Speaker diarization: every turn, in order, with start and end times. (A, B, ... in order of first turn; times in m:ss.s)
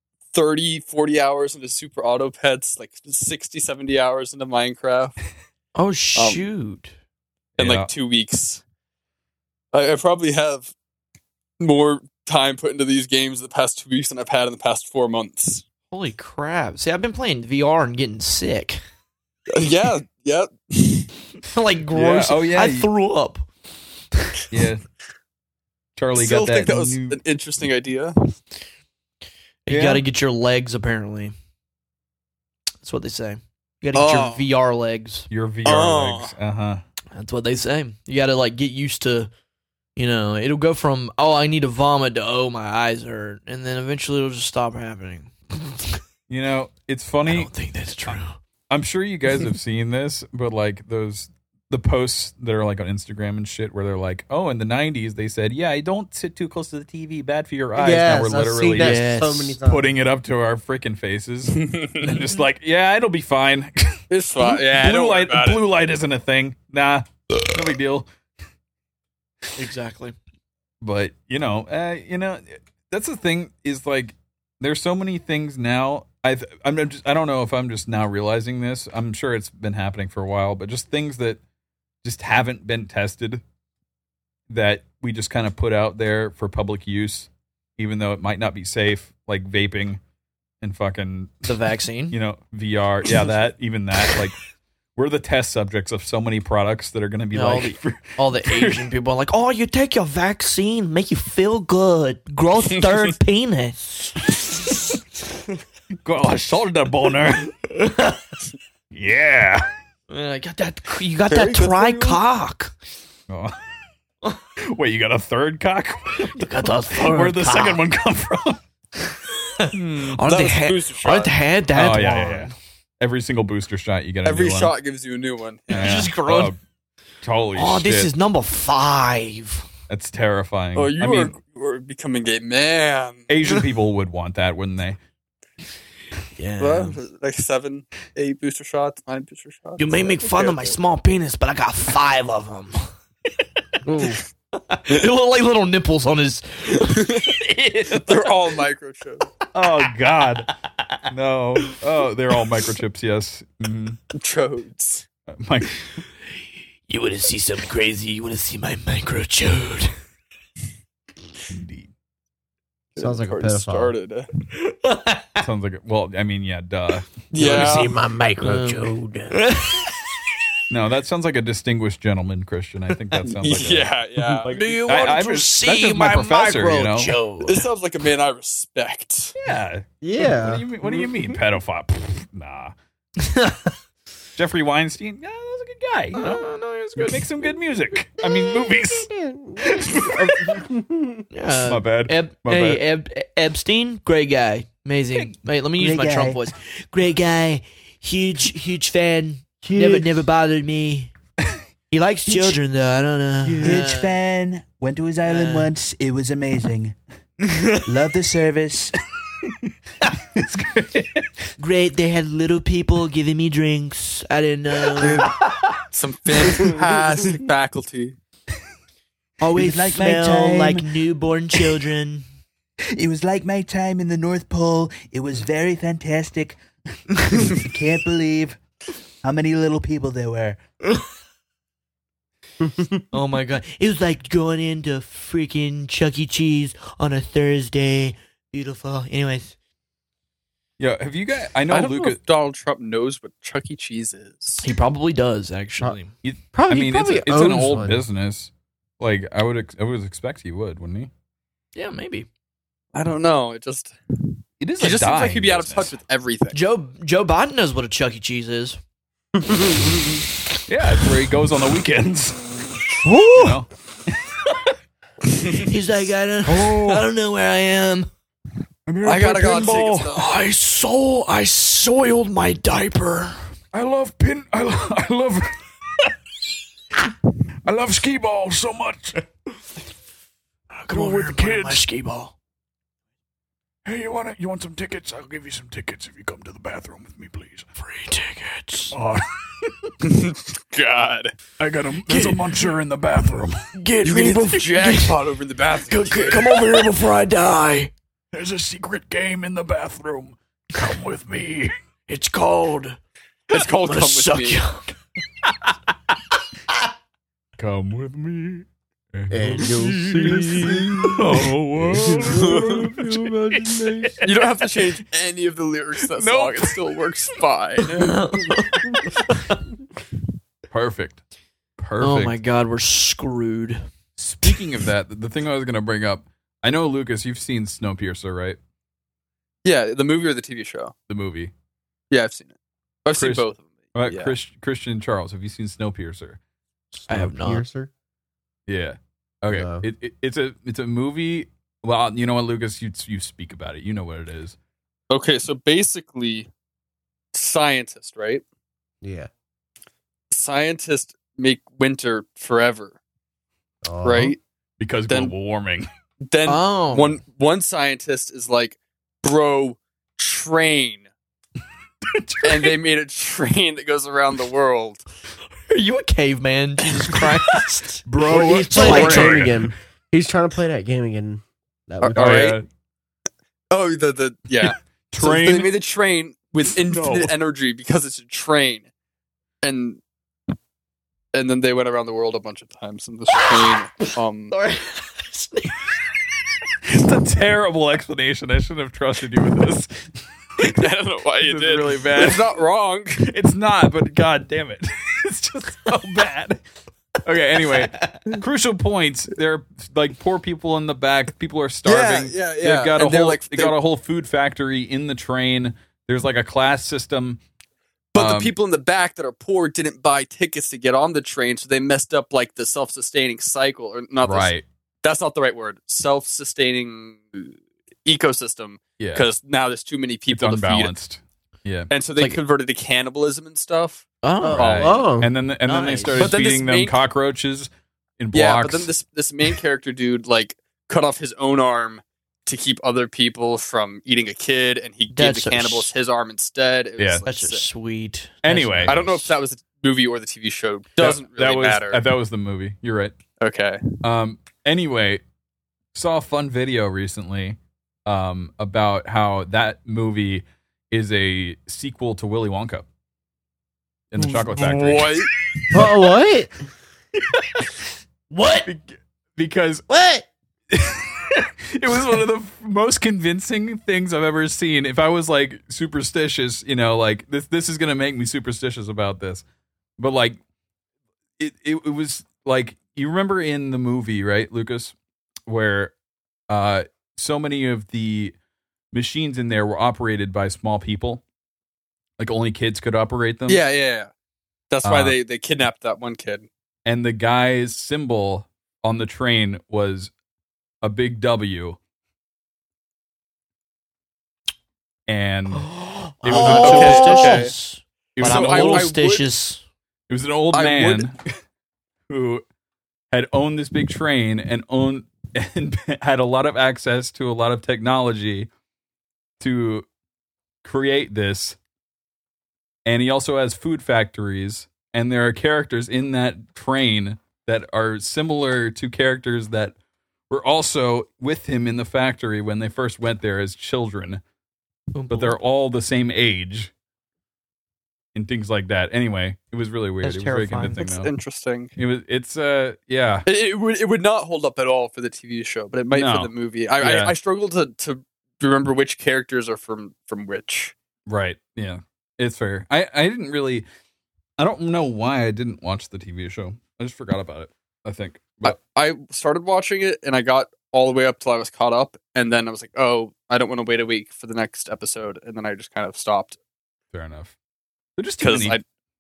0:00.3-0:05.2 A
0:05.7-0:06.9 B
0:06.2-0:06.4 A
0:07.6-0:07.9 C
0:07.6-0:08.6 A
0:09.7-0:10.7 A
0:11.6-0:15.6 A
0:15.9-0:18.8 B
0:19.5-0:21.1 A
0:21.5-0:23.4 B
0:21.9-0:22.9 C
0:24.5-0:24.8 C
0:26.0-0:27.2 C
0:26.1-0:28.2 A
0:29.6-0:31.3 B
0:29.7-0:30.0 C
0:32.8-0:35.3 B
0:33.9-0:34.5 A
0:35.3-0:36.8 C
0:35.6-0:36.3 A
0:37.1-0:39.3 B
0:40.0-0:46.0 B
0:46.3-0:47.5 C
0:47.2-0:48.4 B
0:48.7-1:08.1 C
0:57.7-0:59.9 D
0:58.8-0:59.4 B
1:01.5-1:02.2 A
1:04.1-1:05.6 A
1:09.6-1:10.2 B
1:10.8-1:21.4 C
1:22.0-1:23.4 C
1:24.5-1:30.0 C
1:30.6-1:31.5 C
1:31.4-1:32.2 B
1:32.1-1:34.4 C
1:35.0-1:38.9 C
1:37.3-1:44.2 B
1:46.0-1:47.5 C
1:47.6-1:48.2 B
1:48.9-1:49.7 C
1:50.1-1:52.7 B
1:51.3-1:52.2 A
1:53.3-1:53.6 C
1:54.7-1:58.6 C
1:56.2-1:57.8 B
1:59.5-2:02.5 B
1:59.7-2:01.3 A
1:59.8-2:00.2 C
2:01.7-2:04.7 C
2:04.2-2:06.1 A
2:05.7-2:06.5 B
2:05.7-2:06.6 C
2:07.2-2:08.1 C
2:07.5-2:09.6 B
2:09.9-2:11.3 C
2:10.7-2:13.3 A
2:13.3-2:15.0 C
2:16.4-2:17.0 B
2:16.6-2:20.8 A
2:19.8-2:22.9 B
2:23.8-2:24.2 D
2:24.5-2:28.2 B
2:26.8-2:27.3 A
2:28.0-2:29.3 A
2:29.5-2:30.5 C
2:31.1-2:34.0 C
2:34.1-2:35.0 A
2:35.3-2:35.9 C
2:36.9-2:39.9 B
2:41.5-2:41.9 C
2:42.9-2:44.3 A
2:43.0-2:43.9 D
2:44.6-2:45.4 B
2:45.4-2:47.7 C
2:47.3-2:48.0 A
2:47.4-2:49.4 D
2:48.4-2:49.9 B
2:50.7-2:57.1 C
2:53.2-2:55.1 A
2:54.4-2:57.6 B
2:57.4-2:59.3 A
2:59.4-3:02.7 C
3:00.0-3:01.2 D
3:03.2-3:03.7 B
3:04.4-3:09.1 C
3:06.1-3:07.2 B
3:08.5-3:11.2 D
3:09.6-3:10.6 C
3:11.3-3:21.1 B
3:11.6-3:12.8 C
3:15.8-3:16.4 E
3:19.6-3:20.1 D
3:21.9-3:24.2 B
3:23.5-3:26.9 E
3:25.2-3:25.7 B
3:27.8-3:29.0 E
3:30.3-3:31.3 C
3:31.6-3:35.3 B
3:35.0-3:35.8 C
3:35.9-3:38.2 A
3:39.4-3:42.2 B
3:39.5-3:40.9 E
3:43.0-3:46.6 E
3:47.1-3:48.6 E
3:49.2-3:50.6 E
3:52.6-3:53.0 D
3:53.1-3:59.5 B
4:00.8-4:02.2 C
4:01.7-4:04.6 A
4:04.6-4:06.1 B
4:06.2-4:11.1 C
4:06.5-4:08.0 D
4:11.7-4:12.3 B
4:12.9-4:14.2 A
4:14.6-4:15.9 C
4:14.8-4:16.6 A
4:16.5-4:18.8 B
4:19.5-4:19.9 D
4:20.7-4:22.5 C
4:23.0-4:23.5 B
4:23.1-4:23.5 D
4:23.3-4:24.3 C
4:25.6-4:28.1 B
4:26.4-4:27.1 C
4:28.8-4:30.2 C
4:29.0-4:30.3 A
4:30.1-4:33.4 B
4:33.7-4:35.6 C
4:37.6-4:39.2 C
4:40.7-4:42.3 B
4:40.9-4:41.8 C
4:43.8-4:47.8 C
4:47.8-4:49.0 B
4:48.9-4:49.9 C
4:50.0-4:51.3 A
4:51.6-4:53.7 C
4:52.0-4:52.6 B
4:53.7-4:55.2 B
4:54.0-4:56.7 A
4:55.9-4:57.9 B
4:58.3-5:01.7 C
5:02.1-5:03.0 B
5:03.5-5:04.6 A
5:03.5-5:04.9 B
5:07.6-5:14.5 C
5:09.3-5:14.3 D
5:10.2-5:11.0 B
5:12.2-5:12.9 A
5:14.2-5:18.2 A
5:16.2-5:17.0 C
5:17.9-5:19.6 B
5:20.7-5:21.2 C
5:21.8-5:22.4 C
5:22.0-5:23.8 B
5:24.2-5:28.6 C
5:29.6-5:30.9 A
5:31.1-5:31.5 C
5:32.1-5:32.5 A
5:33.0-5:34.3 A
5:33.2-5:36.4 C
5:36.9-5:37.9 D
5:37.1-5:37.6 B
5:38.7-5:44.6 C
5:39.5-5:39.8 D
5:45.1-5:46.5 A
5:47.3-5:48.4 A
5:49.0-5:49.3 D
5:50.3-5:53.0 A
5:53.8-5:54.3 D
5:54.0-5:54.4 A
5:54.8-5:55.9 C
5:55.1-5:55.3 A
5:56.2-6:01.1 A
5:56.4-5:57.2 B
6:02.1-6:02.7 C
6:02.4-6:05.0 A
6:05.7-6:09.5 B
6:08.0-6:09.7 C
6:08.2-6:12.6 D
6:12.0-6:12.6 A
6:12.0-6:12.7 C
6:13.7-6:18.9 A
6:14.6-6:15.7 C
6:16.8-6:17.3 C
6:19.6-6:20.0 A
6:21.3-6:24.5 A
6:23.3-6:25.9 B
6:26.9-6:30.1 C
6:30.6-6:33.2 A
6:31.4-6:32.4 C
6:33.2-6:36.6 C
6:37.2-6:47.4 C
6:37.9-6:38.2 B
6:41.8-6:43.8 A
6:48.1-7:00.9 A
6:48.2-6:48.5 C
6:54.2-6:54.6 C
6:59.0-6:59.3 C
7:00.3-7:01.9 C
7:01.9-7:04.1 A
7:04.2-7:04.6 B
7:04.4-7:05.3 D
7:04.6-7:08.9 C
7:04.6-7:05.1 A
7:05.6-7:06.3 B
7:06.2-7:07.0 A
7:08.3-7:17.6 A
7:15.1-7:15.9 B
7:17.0-7:17.2 C
7:17.2-7:19.3 B
7:18.4-7:19.0 C
7:18.8-7:22.1 A
7:21.0-7:23.2 C
7:23.4-7:23.9 A
7:24.0-7:25.2 C
7:25.9-7:32.8 C
7:34.1-7:35.3 C
7:34.3-7:35.3 A
7:35.7-7:36.5 D
7:38.3-7:38.7 B
7:38.6-7:39.8 C
7:39.9-7:40.2 D
7:40.7-7:49.4 C
7:50.0-7:50.4 C
7:51.4-7:54.9 C
7:55.5-7:55.9 C
7:56.5-7:58.3 C
7:58.9-8:01.2 C
8:02.2-8:03.6 C
8:03.5-8:04.1 A
8:04.7-8:06.5 A
8:04.8-8:05.2 C
8:06.8-8:10.1 C
8:10.8-8:11.8 C
8:15.1-8:17.5 C
8:15.6-8:19.6 B
8:16.3-8:17.5 A
8:16.4-8:16.9 D
8:18.2-8:18.9 C
8:18.2-8:19.3 A
8:20.1-8:21.2 C
8:20.5-8:21.1 A
8:22.1-8:22.4 C
8:23.1-8:28.5 C
8:29.4-8:29.9 C
8:30.6-8:31.6 C
8:32.8-8:39.8 C
8:40.3-8:44.2 C
8:44.9-8:45.4 B
8:45.1-8:46.7 C
8:48.1-8:51.1 C
8:50.0-8:50.8 B
8:50.8-8:51.7 A
8:51.8-8:53.2 C
8:53.2-9:00.7 A
8:55.9-8:57.1 C
9:01.1-9:03.6 C
9:04.4-9:08.6 C
9:08.4-9:16.4 A
9:16.9-9:17.3 C
9:18.0-9:18.6 C
9:18.2-9:18.6 A